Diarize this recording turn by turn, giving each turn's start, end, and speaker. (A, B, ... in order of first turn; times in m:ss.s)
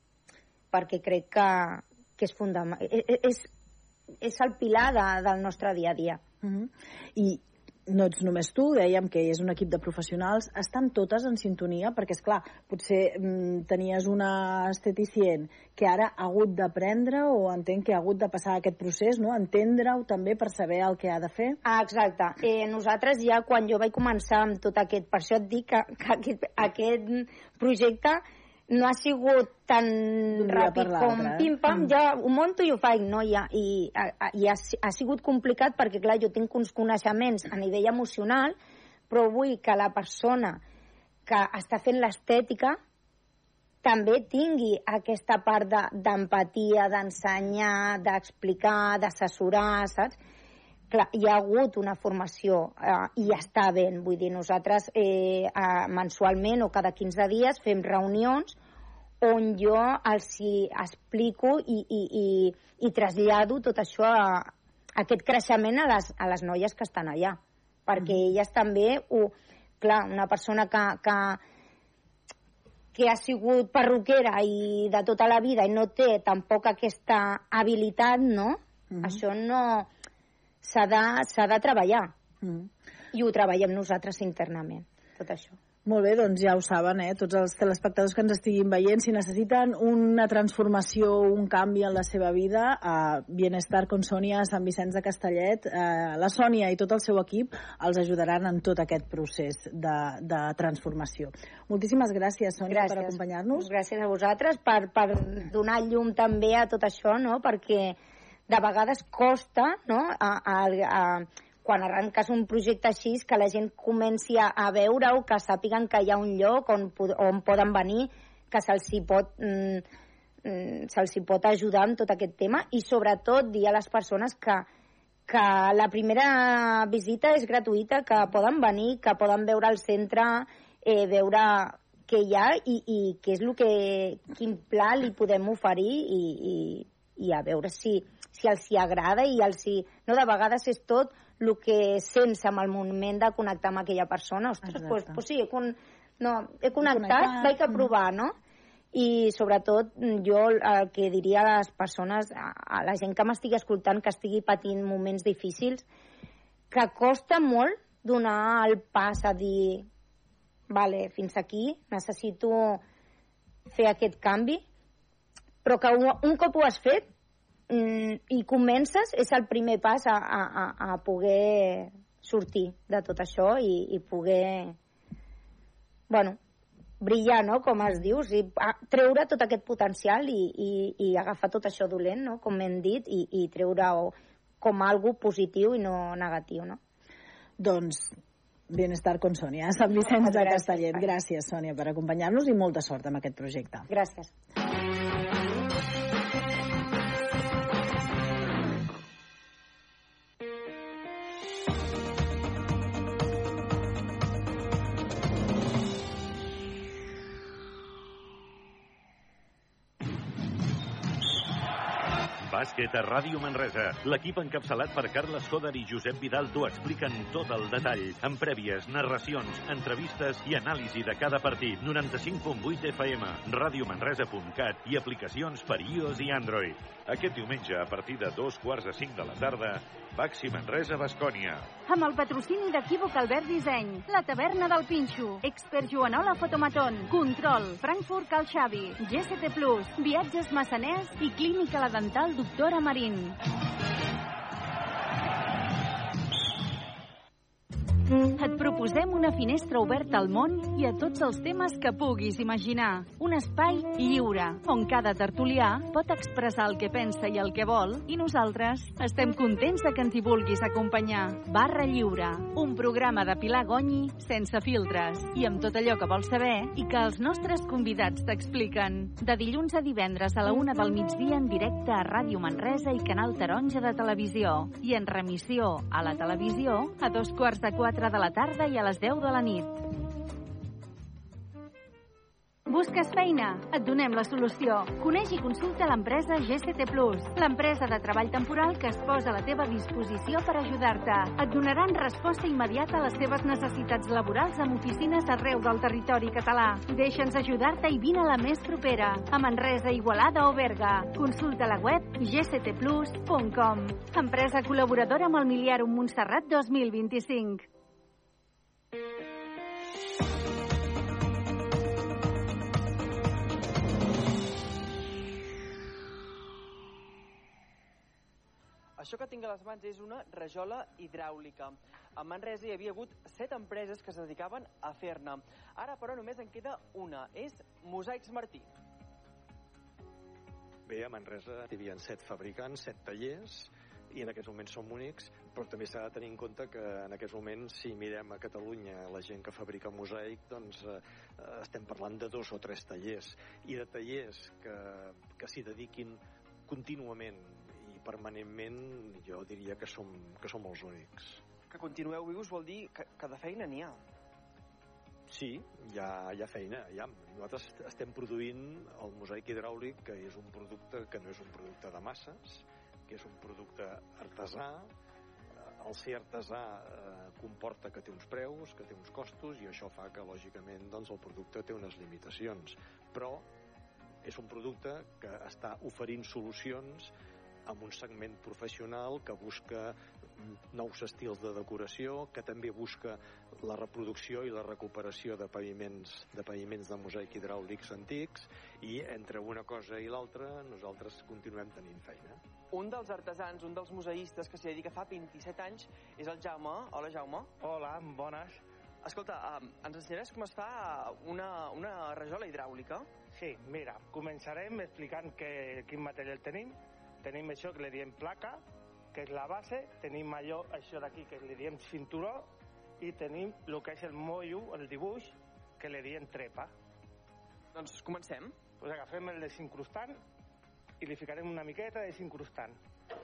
0:00.7-0:03.5 A
0:04.2-0:06.2 A
0:06.4-0:21.6 B
0:21.6-0:38.6 A
0:30.3-0:31.9 B
0:39.1-0:40.6 A
0:41.3-0:42.8 A
0:43.8-0:50.2 A
0:50.9-0:58.6 A
0:59.2-1:11.4 A
1:12.9-1:19.9 A
1:18.9-1:19.2 B
1:20.6-1:22.1 A
1:22.4-1:22.7 B
1:23.1-1:25.6 A
1:25.8-1:43.7 B
1:42.7-1:48.0 A
1:48.5-1:59.8 A
2:00.4-2:04.7 A
2:05.3-2:28.3 A
2:24.7-2:25.2 B
2:26.8-2:27.8 B
2:28.9-2:35.8 A
2:36.7-2:39.8 A
2:40.7-2:42.8 A
2:43.7-2:44.6 A
2:45.6-2:47.0 A
2:47.7-2:54.8 A
2:56.1-2:56.4 A
2:57.0-3:06.8 A
3:07.6-3:08.2 B
3:08.7-3:13.9 B
3:10.1-3:11.1 A
3:13.9-3:14.3 A
3:32.4-3:51.7 C
3:51.9-4:03.4 D
4:08.4-4:39.8 D
4:42.7-5:07.6 D
5:19.0-5:28.7 E
5:30.8-5:51.4 F
5:51.7-5:54.0 E
5:55.3-6:04.9 F
6:05.8-6:13.5 F
6:14.2-6:17.1 F
6:17.6-6:32.4 F
6:32.7-6:37.5 E
6:37.6-6:38.6 G
6:39.0-6:43.1 E
6:43.3-6:48.6 G
6:49.1-6:56.7 G
6:57.7-6:58.6 E
6:58.8-7:00.2 G
7:01.0-7:02.8 G